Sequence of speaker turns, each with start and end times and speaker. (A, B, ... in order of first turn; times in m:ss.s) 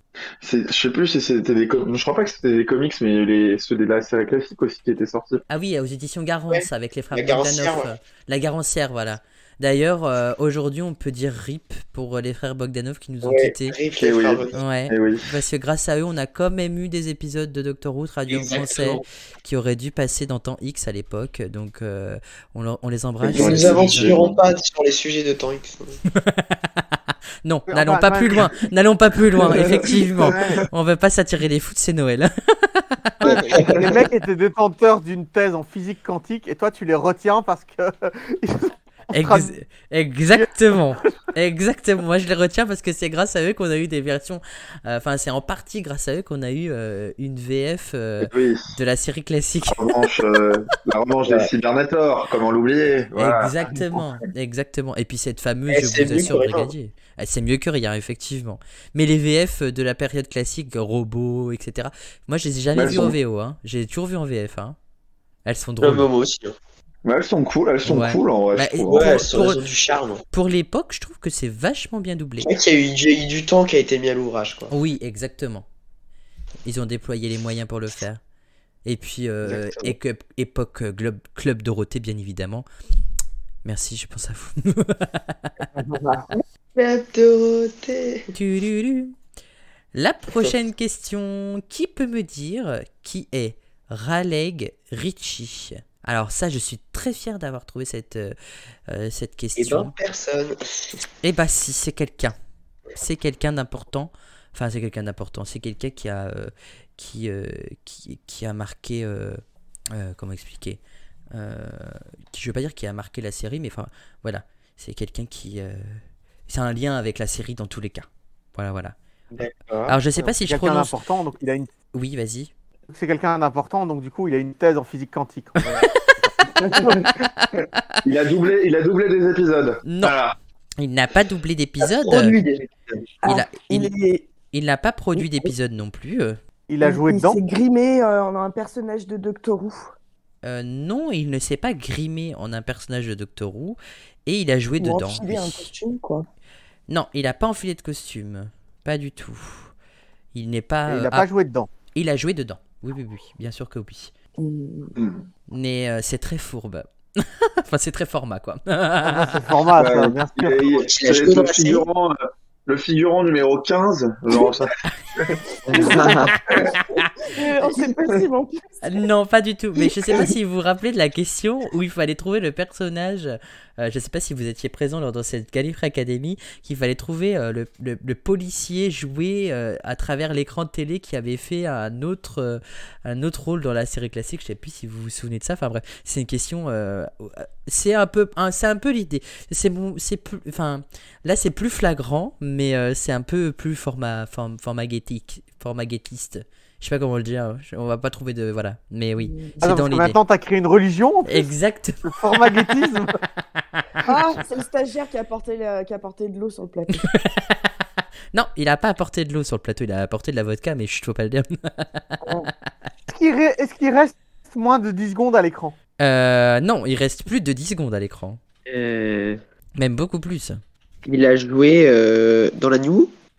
0:00.4-0:05.4 A
0:05.5-0:13.8 B
0:06.5-0:07.9 C
0:13.2-0:14.6 C
0:14.0-0:15.3 A
0:14.5-0:24.2 B
0:18.3-0:19.0 C
0:23.2-0:24.4 A
0:23.3-0:26.0 C
0:26.1-0:33.2 B
0:27.7-0:28.5 D
0:29.4-0:30.6 A
0:33.2-0:39.5 D
0:33.3-0:34.0 C
0:33.6-0:33.8 A
0:39.1-0:49.9 B
0:48.2-0:48.8 A
0:49.7-0:54.1 A
0:53.2-1:04.8 B
0:55.7-0:56.7 C
1:02.7-1:03.2 A
1:05.4-1:06.1 B
1:05.8-1:06.6 C
1:07.0-1:09.3 A
1:07.8-1:09.6 B
1:08.9-1:10.2 C
1:10.3-1:12.5 B
1:12.4-1:14.7 C
1:14.7-1:15.7 B
1:16.6-1:18.2 B
1:18.8-1:22.7 B
1:19.5-1:19.9 C
1:23.6-1:25.5 B
1:26.8-1:28.3 C
1:28.3-1:29.2 B
1:29.9-1:38.4 B
1:30.3-1:30.6 C
1:38.9-1:39.9 B
1:39.6-1:41.0 C
1:41.2-1:42.4 B
1:43.0-1:49.4 B
1:49.9-1:50.8 B
1:51.3-1:59.0 B
1:59.3-2:00.3 C
1:59.9-2:01.0 B
2:00.4-2:01.7 D
2:01.9-2:02.5 B
2:02.9-2:05.7 D
2:05.7-2:06.0 B
2:06.6-2:07.1 A
2:06.8-2:08.0 B
2:08.0-2:10.4 A
2:09.8-2:10.2 B
2:10.8-2:12.4 B
2:11.8-2:13.1 C
2:13.2-2:14.3 E
2:13.2-2:13.9 B
2:14.5-2:16.4 B
2:15.2-2:15.5 E
2:16.7-2:17.4 D
2:16.8-2:19.9 E
2:20.4-2:25.7 B
2:24.8-2:26.3 E
2:26.9-2:29.7 B
2:30.3-2:31.3 B
2:30.9-2:31.7 D
2:31.9-2:34.1 B
2:34.4-2:35.0 E
2:35.0-2:35.3 A
2:35.5-2:39.4 B
2:39.0-2:40.7 D
2:39.8-2:46.8 A
2:40.7-2:41.9 C
2:45.7-2:46.3 C
2:45.7-2:48.9 E
2:46.3-2:47.1 B
2:48.8-3:20.2 B
3:19.2-3:19.6 E
3:19.6-3:21.5 D
3:21.3-3:22.2 B
3:22.0-3:23.1 D
3:24.0-3:27.1 E
3:27.0-3:27.6 B
3:28.3-3:32.1 B
3:33.1-3:35.8 D
3:36.0-3:38.4 B
3:38.7-3:39.4 C
3:39.8-3:40.6 B
3:41.1-3:43.1 C